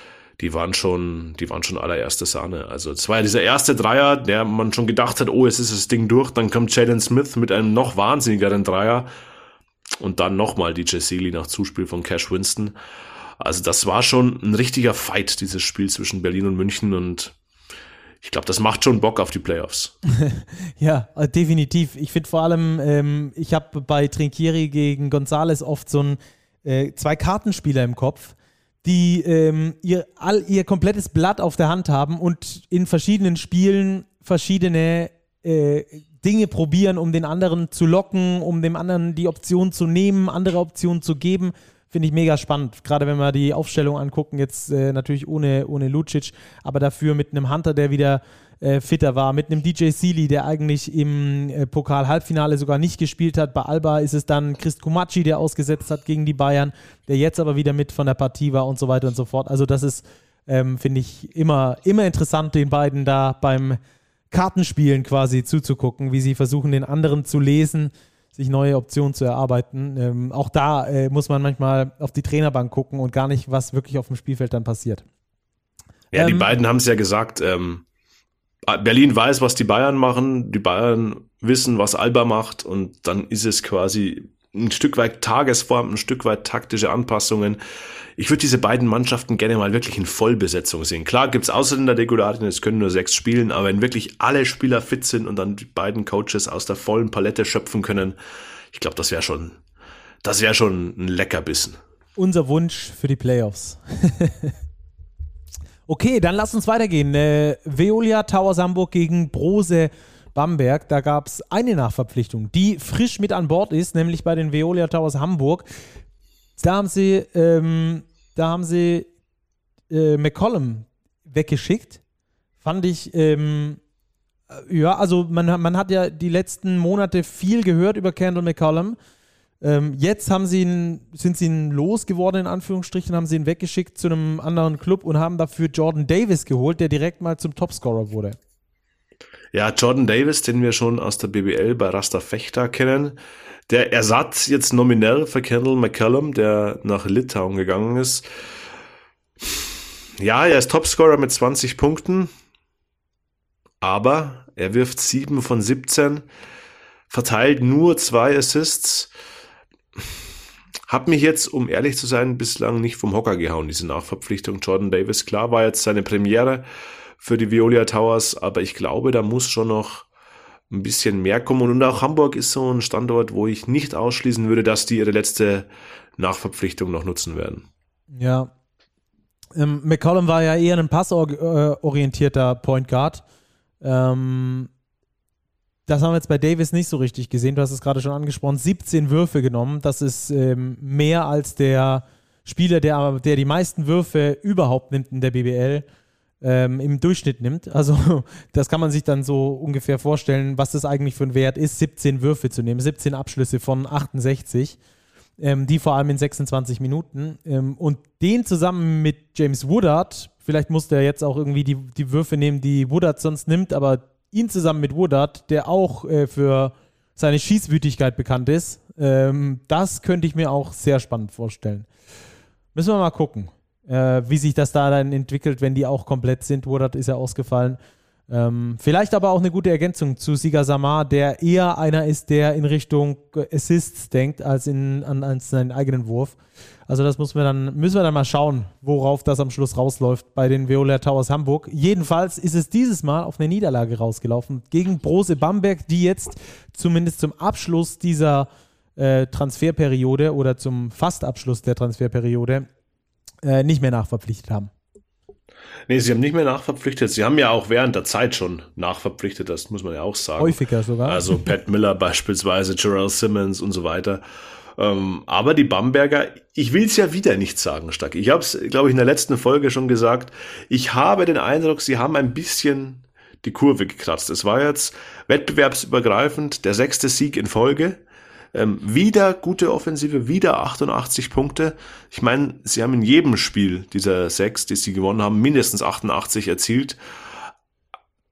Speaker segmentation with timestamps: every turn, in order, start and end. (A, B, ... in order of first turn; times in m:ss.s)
0:00.4-0:09.1 A
0:10.0-0:12.8 A
0:13.4-0:17.4 A
0:18.2-0:20.0 A
0:20.2-1:03.8 B
1:04.3-1:15.0 B
1:16.1-1:17.8 A
1:16.1-1:16.6 B
1:18.7-1:27.6 A
1:28.2-1:38.2 A
1:38.7-1:39.6 A
1:40.2-1:41.8 A
1:42.2-1:44.6 B
1:45.9-1:55.7 B
1:56.6-1:59.1 B
1:59.9-2:02.0 B
2:02.6-2:03.8 B
2:04.5-2:09.0 B
2:09.6-2:18.4 B
2:19.5-2:23.2 A
2:23.7-2:28.3 A
2:29.4-2:32.3 A
2:33.8-2:36.3 A
2:37.1-2:39.1 A
2:40.9-2:46.6 A
2:47.2-2:50.1 A
2:50.7-2:57.7 A
2:58.1-2:58.5 B
2:59.6-3:03.2 B
3:03.8-3:04.7 B
3:05.9-3:15.8 B
3:16.4-3:24.8 B
3:25.4-3:41.9 B
3:42.8-3:56.4 B
3:56.9-4:12.7 B
4:13.4-4:14.7 B
4:15.9-4:24.2 A
4:20.4-4:21.4 B
4:24.8-4:38.0 A
4:38.5-4:47.0 A